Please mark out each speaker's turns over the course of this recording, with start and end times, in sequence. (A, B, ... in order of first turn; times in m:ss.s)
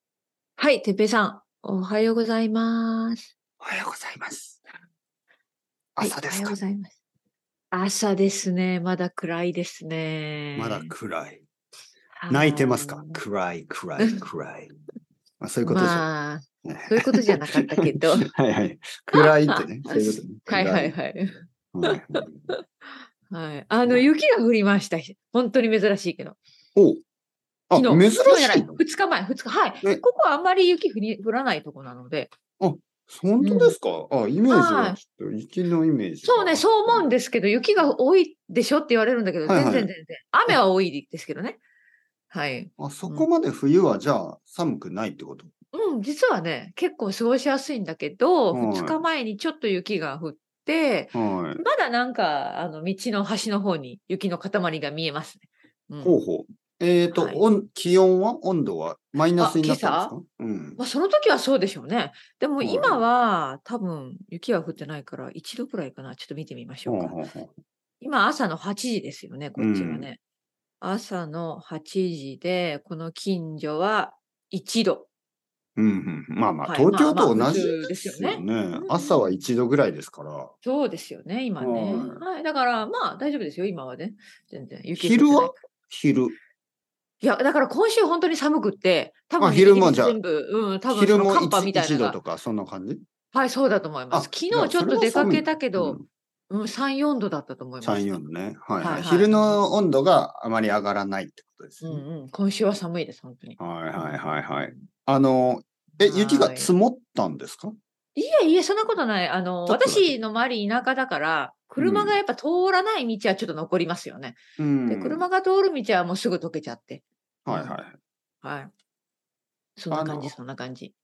0:00.6-0:03.3 A
0:03.6-0:04.6 B
0:06.0-0:06.6 B
0:06.0-0:07.0 A
0:07.7-0:10.9 A
0:10.5-0:11.4 B
0:12.1-0:13.2 A
0:12.3-0:14.7 B
0:14.0-0:14.2 A
0:15.4-0:16.0 B
0:15.6-0:18.3 A
0:16.6-0:20.9 B
0:19.1-0:22.6 A
0:21.7-0:22.5 B
0:23.3-0:26.4 A
0:26.7-0:27.0 B
0:27.7-0:28.8 B
0:27.7-0:32.3 A
0:32.6-0:37.1 B
0:33.4-0:33.7 A
0:34.5-0:35.0 A
0:36.2-0:41.6 A
0:39.4-0:39.9 B
0:42.3-0:43.3 A
0:42.8-0:45.5 B
0:45.7-0:56.2 A
0:48.5-0:49.0 B
0:51.1-0:51.6 B
0:56.0-1:00.8 B
0:57.1-0:57.4 A
0:59.4-1:00.1 A
1:00.8-1:07.2 A
1:02.6-1:03.0 B
1:06.9-1:07.5 B
1:08.0-1:10.2 A
1:09.6-1:10.1 B
1:10.8-1:15.1 A
1:15.8-1:20.5 B
1:16.6-1:19.4 A
1:20.6-1:25.6 A
1:21.6-1:22.2 B
1:25.0-1:26.3 B
1:27.2-1:32.2 A
1:29.4-1:30.2 B
1:30.9-1:33.0 B
1:33.3-1:36.0 A
1:34.1-1:36.0 B
1:36.5-1:38.2 A
1:37.8-1:42.0 B
1:38.8-1:39.6 A
1:41.8-1:44.6 A
1:43.6-1:47.7 B
1:46.0-1:46.7 A
1:48.2-1:57.8 A
1:49.6-1:50.1 B
1:51.8-1:52.2 B
1:54.6-1:55.2 B
1:57.4-1:58.0 B
1:58.4-1:58.7 A
1:59.8-2:00.9 A
1:59.9-2:00.3 B